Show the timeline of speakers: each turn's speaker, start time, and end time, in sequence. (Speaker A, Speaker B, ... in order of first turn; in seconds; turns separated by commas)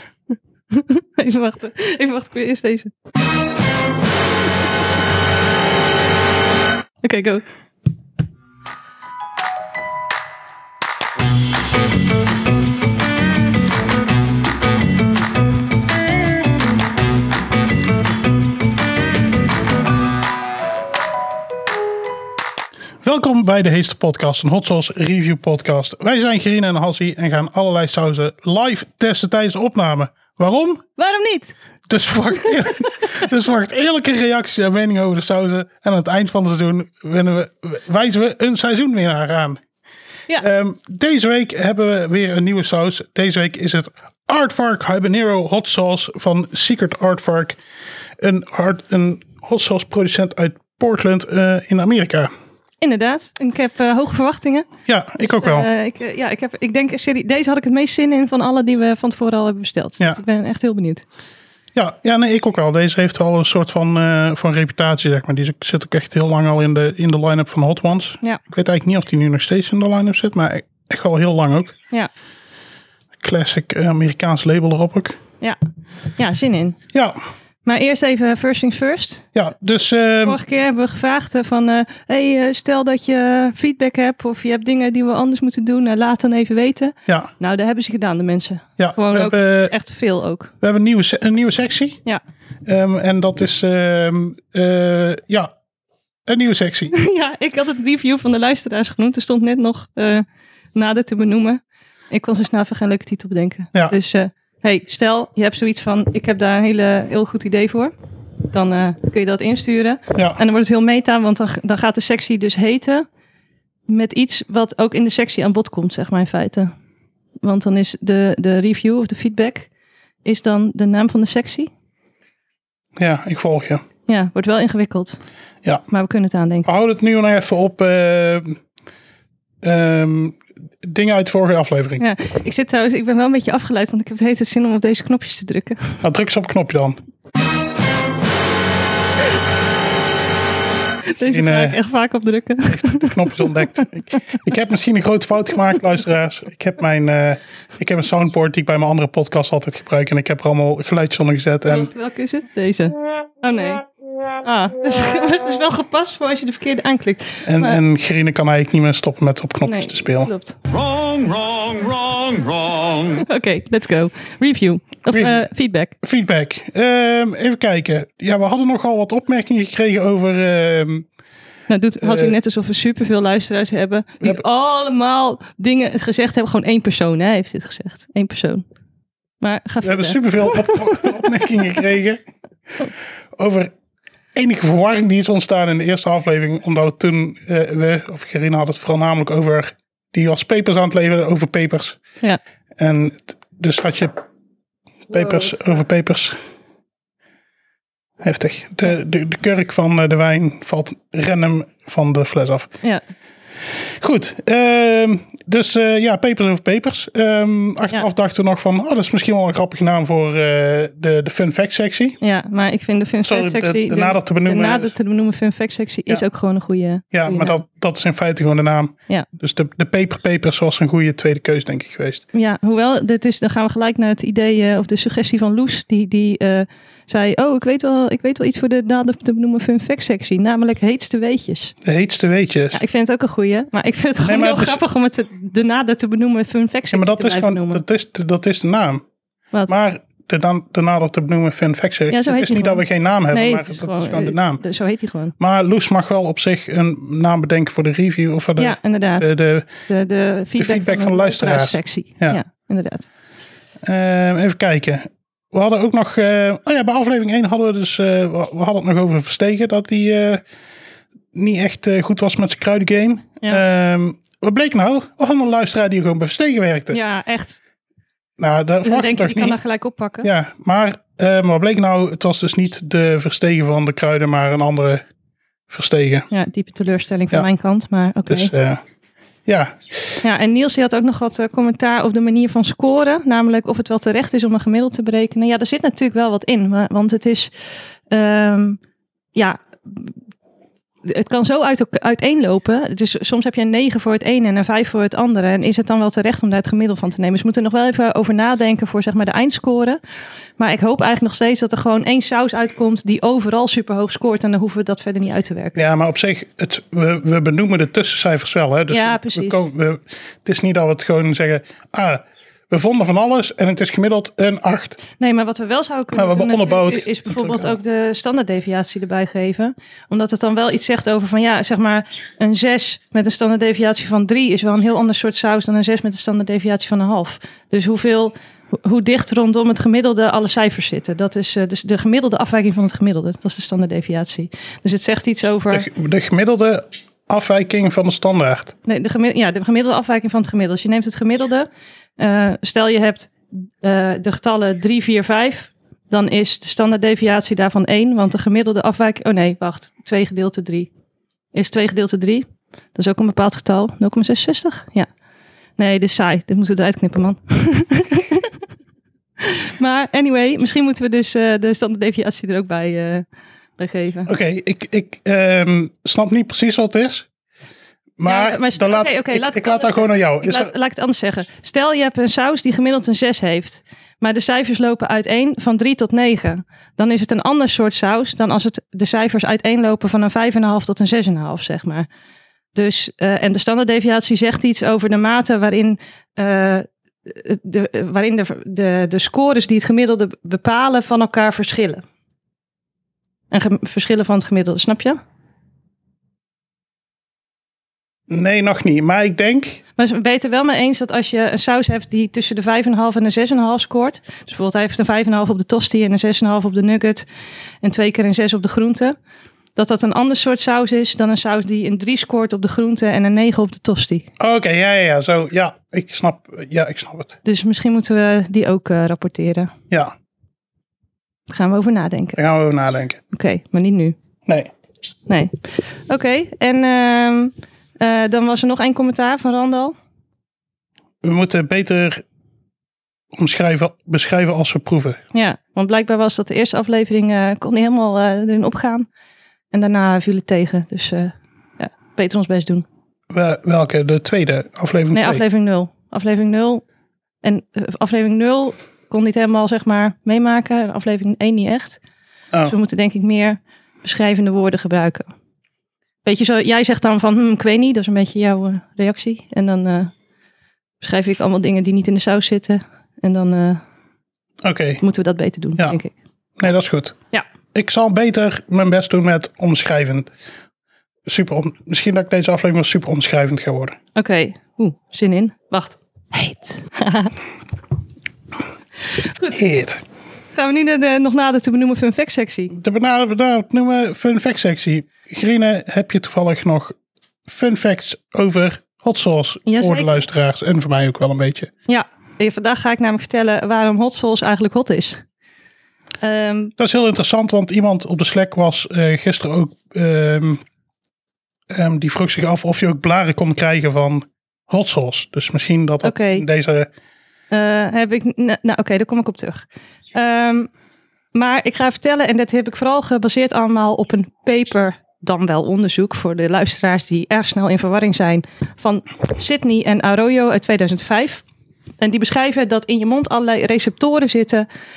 Speaker A: 0.7-2.9, Speaker A: 7.0-7.4, Speaker B: 23.0-30.8, Speaker A: 31.0-31.5, Speaker B: 31.9-39.6, Speaker B: 40.4-47.6, Speaker B: 48.2-52.3, Speaker A: 52.8-54.7, Speaker B: 54.9-55.7, Speaker A: 55.2-61.0, Speaker B: 61.7-71.8, Speaker B: 73.2-75.2, Speaker A: 76.2-76.8, Speaker A: 77.7-79.3, Speaker B: 79.3-80.4, Speaker A: 80.2-90.5, Speaker B: 87.1-87.3, Speaker B: 88.8-89.7, Speaker B: 90.6-92.0, Speaker B: 92.7-95.5, Speaker B: 96.3-96.9, Speaker A: 96.9-107.9, Speaker A: 108.5-113.1, Speaker A: 113.9-116.7, Speaker A: 117.4-119.7, Speaker A: 120.2-121.7, Speaker B: 123.0-123.8, Speaker A: 124.1-125.2, Speaker A: 125.9-126.7, Speaker B: 126.7-128.6, Speaker B: 129.6-132.0, Speaker A: 132.0-136.0, Speaker B: 136.0-137.0, Speaker A: 141.1-143.8, Speaker B: 141.2-141.8, Speaker B: 142.7-151.9, Speaker A: 151.7-153.8, Speaker A: 154.4-157.8, Speaker B: 157.4-160.3, Speaker A: 159.7-160.6, Speaker C: 160.7-163.2, Speaker A: 163.2-165.9, Speaker B: 165.1-165.5, Speaker B: 166.0-171.1, Speaker A: 171.7-178.7, Speaker B: 172.0-172.3, Speaker A: 179.4-181.2, Speaker B: 179.8-182.2, Speaker B: 182.8-183.7, Speaker B: 184.3-192.0, Speaker B: 192.8-194.2, Speaker B: 195.1-196.4, Speaker B: 198.2-202.7, Speaker B: 203.7-212.2, Speaker A: 212.2-217.6, Speaker B: 213.2-214.9, Speaker B: 217.1-222.2, Speaker A: 222.3-231.8, Speaker B: 231.8-232.8, Speaker A: 232.7-237.8, Speaker B: 234.2-234.8, Speaker B: 236.9-239.0, Speaker B: 239.7-244.6, Speaker A: 242.1-245.3, Speaker B: 245.4-249.7, Speaker A: 248.6-249.3, Speaker A: 249.9-253.1, Speaker B: 250.6-252.4, Speaker B: 253.8-260.4, Speaker B: 261.3-267.0, Speaker A: 266.9-267.6, Speaker B: 268.4-269.6, Speaker A: 268.8-270.3, Speaker B: 270.2-275.1, Speaker B: 275.7-276.3, Speaker A: 276.3-278.5, Speaker B: 278.3-278.8, Speaker B: 279.4-280.2, Speaker A: 280.2-287.5, Speaker A: 288.1-288.8, Speaker A: 289.4-290.2, Speaker A: 291.1-300.0, Speaker A: 300.6-305.8, Speaker B: 305.8-315.0, Speaker A: 308.9-309.6, Speaker A: 315.2-335.9, Speaker B: 316.1-317.8, Speaker B: 335.7-338.8, Speaker A: 338.9-350.9, Speaker A: 351.5-355.1, Speaker A: 355.8-358.5, Speaker A: 359.4-363.2, Speaker A: 363.8-364.3, Speaker B: 364.2-367.3, Speaker B: 368.2-370.7, Speaker A: 368.2-382.1, Speaker A: 382.7-392.1, Speaker A: 393.5-395.2, Speaker B: 398.3-399.8, Speaker A: 400.0-407.2, Speaker A: 407.8-409.2, Speaker A: 409.8-414.3, Speaker B: 414.4-417.4, Speaker A: 417.4-419.7, Speaker A: 421.5-422.4, Speaker B: 422.4-423.2, Speaker A: 423.3-424.2, Speaker A: 425.3-429.9, Speaker B: 431.2-432.2, Speaker B: 433.3-435.2, Speaker A: 435.3-439.1, Speaker A: 439.7-442.9, Speaker B: 443.3-445.4, Speaker A: 445.1-446.8, Speaker A: 447.4-452.0, Speaker A: 452.7-455.3, Speaker A: 456.2-460.1, Speaker A: 461.0-463.8, Speaker B: 464.6-465.0, Speaker A: 465.0-466.1, Speaker B: 466.6-467.2, Speaker B: 467.7-470.3, Speaker B: 471.3-474.0, Speaker A: 474.1-477.3, Speaker A: 479.3-479.5, Speaker B: 479.4-480.0, Speaker A: 480.5-482.7, Speaker B: 482.7-486.9, Speaker B: 487.4-491.7, Speaker A: 489.7-490.1, Speaker A: 491.9-495.2, Speaker A: 496.2-496.7, Speaker B: 496.8-500.6, Speaker B: 501.7-506.9, Speaker A: 506.0-506.4, Speaker A: 507.5-510.7, Speaker A: 511.3-521.4, Speaker A: 522.0-524.6